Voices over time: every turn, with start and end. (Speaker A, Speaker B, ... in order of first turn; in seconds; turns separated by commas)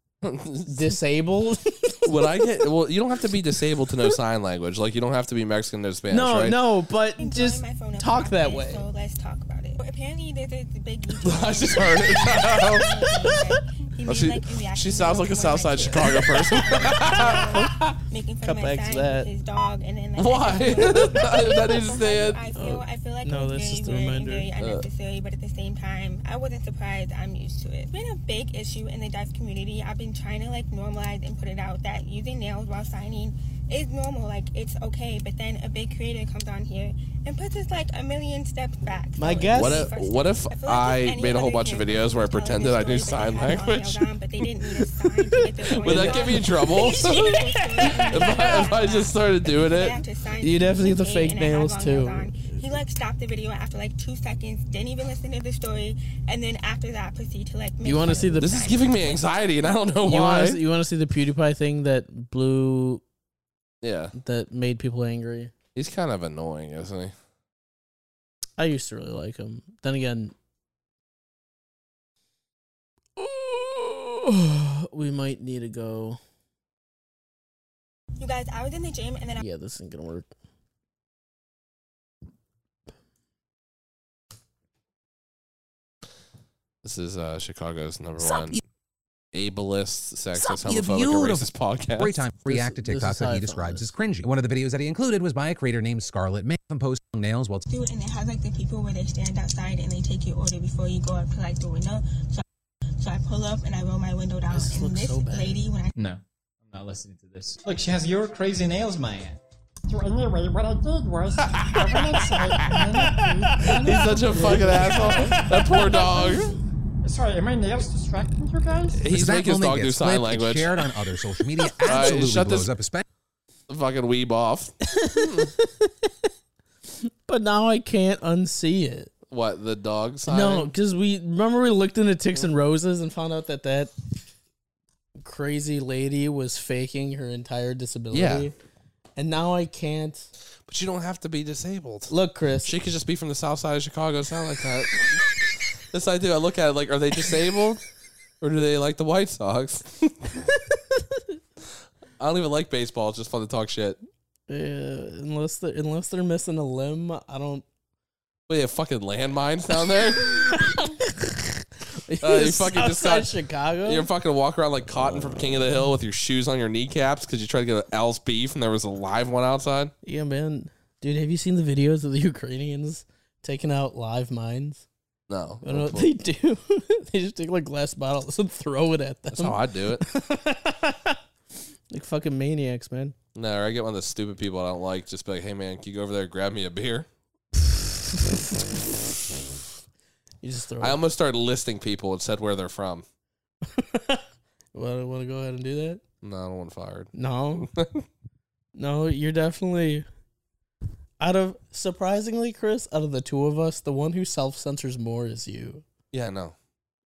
Speaker A: 0.2-0.9, Speaker B: 0.7-2.5, Speaker A: 2.0-6.6, Speaker B: 6.1-8.8, Speaker C: 7.2-59.2, Speaker A: 11.2-13.4, Speaker A: 14.1-17.9, Speaker B: 15.8-16.1, Speaker B: 16.8-19.3, Speaker A: 20.2-22.4, Speaker B: 22.6-24.5, Speaker A: 24.6-24.9, Speaker B: 39.2-39.9, Speaker A: 39.5-44.1, Speaker B: 45.0-48.6, Speaker A: 45.8-50.0, Speaker B: 50.4-52.4, Speaker B: 57.8-58.6, Speaker A: 58.4-60.6, Speaker B: 60.0-63.0, Speaker A: 63.8-64.1, Speaker B: 64.2-65.5, Speaker A: 65.8-67.1, Speaker B: 68.6-70.3, Speaker B: 73.2-76.2, Speaker C: 78.2-79.4, Speaker B: 79.4-80.3, Speaker A: 86.8-88.6, Speaker A: 89.3-92.2, Speaker D: 90.3-97.6, Speaker B: 92.5-93.9, Speaker C: 97.7-102.4, Speaker C: 103.0-105.9, Speaker B: 104.5-105.6, Speaker E: 106.0-116.1, Speaker A: 111.4-116.5, Speaker B: 113.1-113.7, Speaker B: 114.3-116.3, Speaker E: 117.0-119.1, Speaker A: 119.0-120.8, Speaker D: 119.1-123.0, Speaker A: 121.8-122.7, Speaker A: 123.7-125.5, Speaker B: 124.9-126.1, Speaker B: 127.0-129.1, Speaker A: 129.3-130.7, Speaker B: 130.3-133.9, Speaker B: 135.2-138.5, Speaker A: 138.1-138.5, Speaker B: 139.2-140.3, Speaker A: 140.7-142.1, Speaker B: 142.1-142.7, Speaker A: 142.6-145.3, Speaker A: 145.9-147.8, Speaker A: 148.4-150.4, Speaker A: 152.2-154.0, Speaker B: 154.5-157.6, Speaker A: 158.5-160.5, Speaker B: 160.2-164.1, Speaker A: 162.2-163.3, Speaker A: 163.8-169.9, Speaker B: 170.0-174.8, Speaker A: 175.3-176.1, Speaker B: 175.6-181.2, Speaker A: 179.3-180.0, Speaker B: 181.9-183.2, Speaker A: 183.3-187.1, Speaker B: 187.6-188.6, Speaker B: 190.4-191.0, Speaker A: 190.8-193.1, Speaker B: 193.7-196.0, Speaker A: 196.2-198.1, Speaker B: 197.1-197.7, Speaker B: 198.8-200.1, Speaker B: 201.2-205.8, Speaker A: 206.1-206.6